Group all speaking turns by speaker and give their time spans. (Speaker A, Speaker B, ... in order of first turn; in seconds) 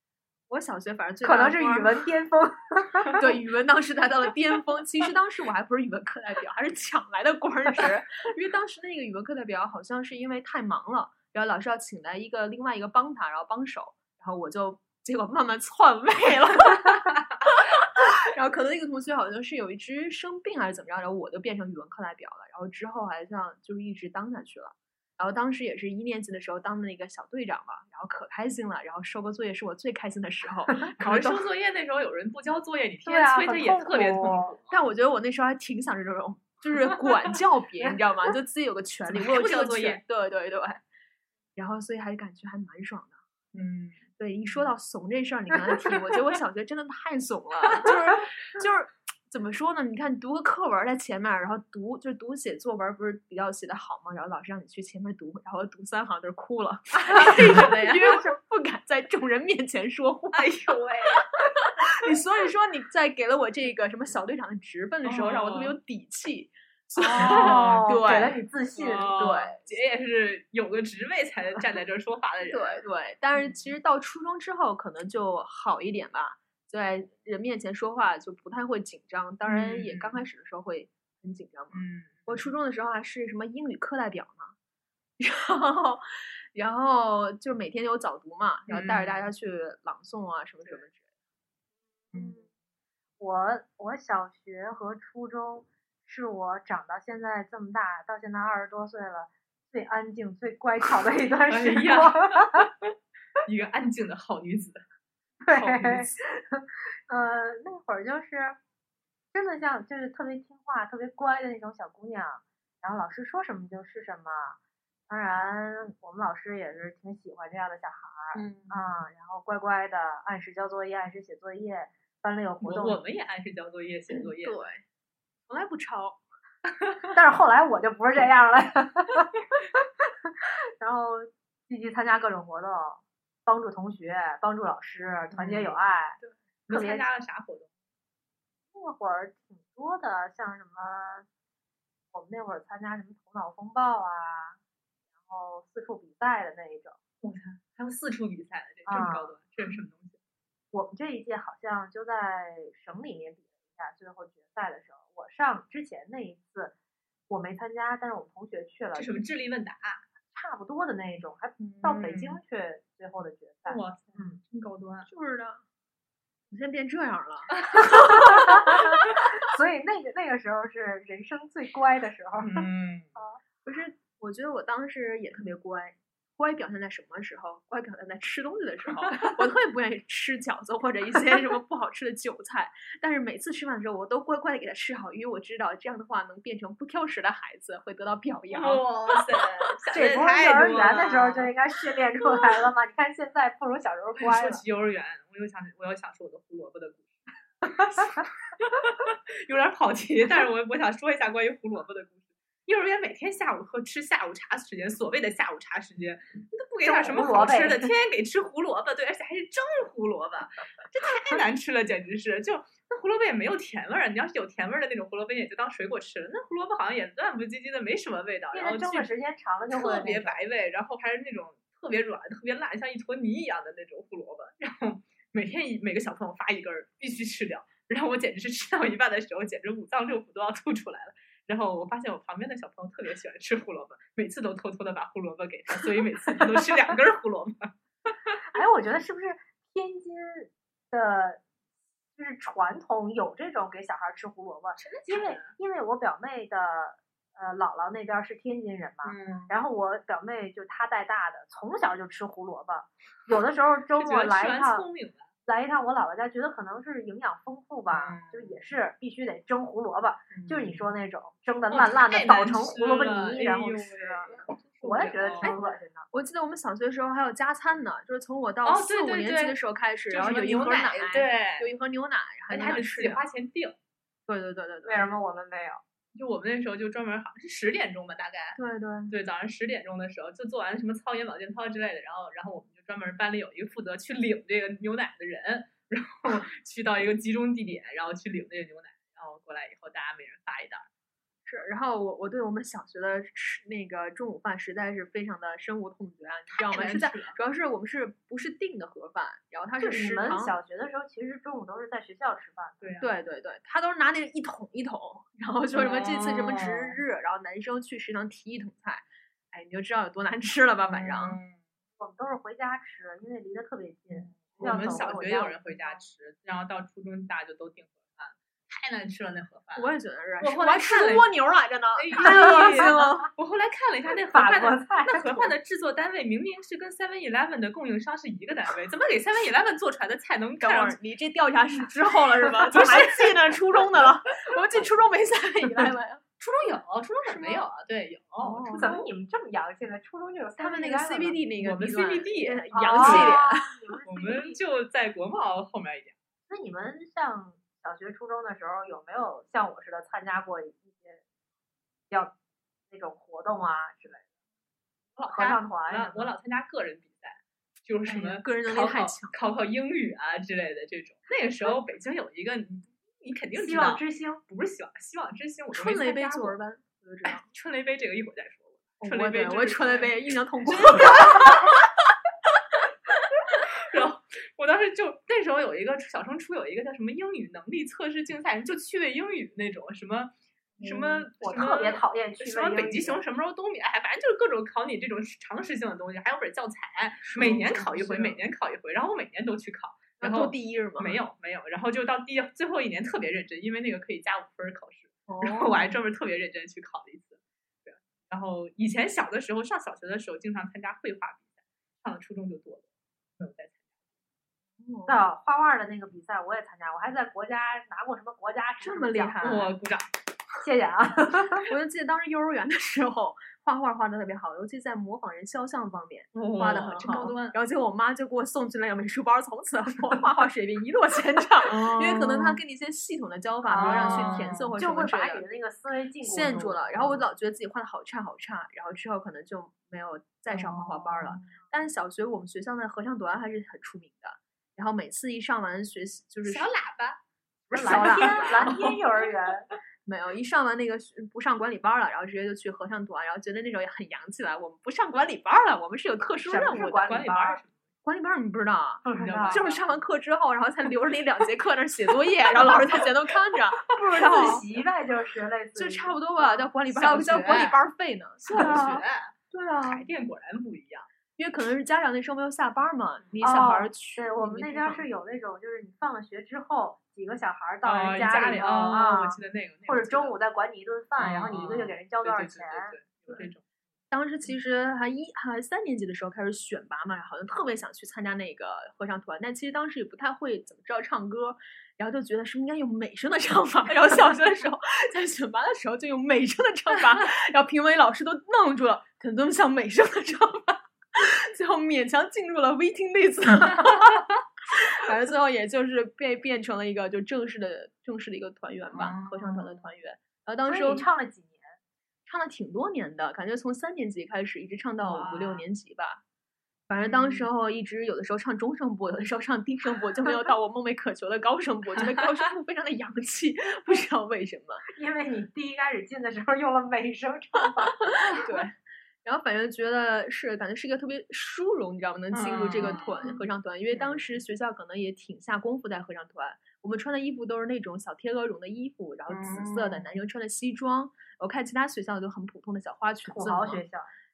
Speaker A: 0.5-1.9, 3.2-31.5, 34.7-40.8, 41.6-43.2, 44.2-60.8, 62.0-68.4, 69.1-69.7, 72.5-84.5, 85.2-91.0, 118.3-118.7, 124.1-124.8, 125.5-126.2, 135.4-136.3, 165.1-165.6, 166.5-168.5, 173.7-189.7, 266.1-273.2, 274.3-275.0, 278.6-279.1, 291.5-300.5, 303.0-311.4, 319.8-323.3, 330.6-336.2, 337.3-337.7, 338.4-339.1, 340.6-344.0, 358.1-359.3, 365.7-367.4, 369.0-371.7, 387.3-388.4, 390.2-391.2, 395.3-395.9, 404.8-405.2, 408.8-409.7, 411.7-425.4, 426.2-436.7, 437.7-438.8, 440.1-447.2, 448.0-454.6, 455.8-460.1, 461.4-465.1, 474.1-501.1, 502.3-506.2, 506.9-514.8, 518.2-518.7, 519.2-533.8
Speaker B: 1.2-3.2, 33.0-34.5, 67.0-69.1, 92.1-92.5, 93.2-102.7, 105.5-108.6, 109.3-123.0, 127.1-129.8, 130.8-137.1, 138.7-141.3, 142.1-144.6, 145.2-147.0, 148.9-149.4, 150.7-156.7, 157.3-159.2, 160.3-164.4, 167.7-172.7, 189.9-194.6, 206.8-207.9, 218.5-220.4, 238.5-241.4, 242.2-254.9, 255.5-266.1, 274.9-275.8, 299.8-302.9, 312.0-316.0, 322.2-323.1, 324.3-325.5, 338.8-341.4, 342.7-344.6, 346.5-351.2, 352.9-354.2, 355.3-356.4, 363.6-364.4, 380.9-383.2, 405.1-409.7, 410.6-411.7, 423.6-427.2, 437.7-439.7, 446.4-447.6, 449.0-449.6, 453.9-456.7, 463.4-473.0, 500.7-501.8, 514.9-518.4, 522.9-523.3, 533.2-534.1
Speaker C: 31.0-34.8, 39.1-40.0, 43.5-44.0, 57.1-57.7, 60.3-61.7, 65.0-65.8, 67.1-68.1, 68.8-72.8, 79.4-80.2, 81.7-82.5, 88.7-89.3, 101.5-102.9, 103.5-104.8, 105.5-106.1, 122.6-124.6, 136.7-137.7, 147.2-150.2, 158.9-160.0, 161.6-162.4, 163.7-165.1, 167.6-167.9, 172.4-173.1, 188.5-191.5, 194.2-197.1, 197.9-219.1, 219.7-237.7, 244.8-245.5, 249.1-249.5, 253.9-255.3, 257.9-258.5, 260.3-260.8, 261.7-265.5, 268.6-269.6, 270.1-271.7, 272.5-273.8, 276.1-278.6, 279.1-290.9, 296.5-297.4, 302.8-303.1, 305.7-307.0, 310.9-311.6, 314.2-321.3, 321.9-331.0, 332.7-334.1, 336.4-339.0, 341.6-343.4, 344.1-346.1, 355.2-366.6, 367.3-370.2, 370.7-371.8, 373.7-402.9, 403.4-403.8, 409.4-410.1, 416.3-417.6, 421.6-422.6, 423.8-424.7, 430.5-431.5, 436.5-437.2, 437.8-439.0, 446.7-447.7, 449.2-449.9, 454.2-454.6, 456.9-457.8, 458.4-461.1, 467.8-470.4, 471.2-473.6, 498.9-499.9, 505.1-505.6, 507.1-507.4, 522.3-523.4, 524.0-524.3, 529.3-530.1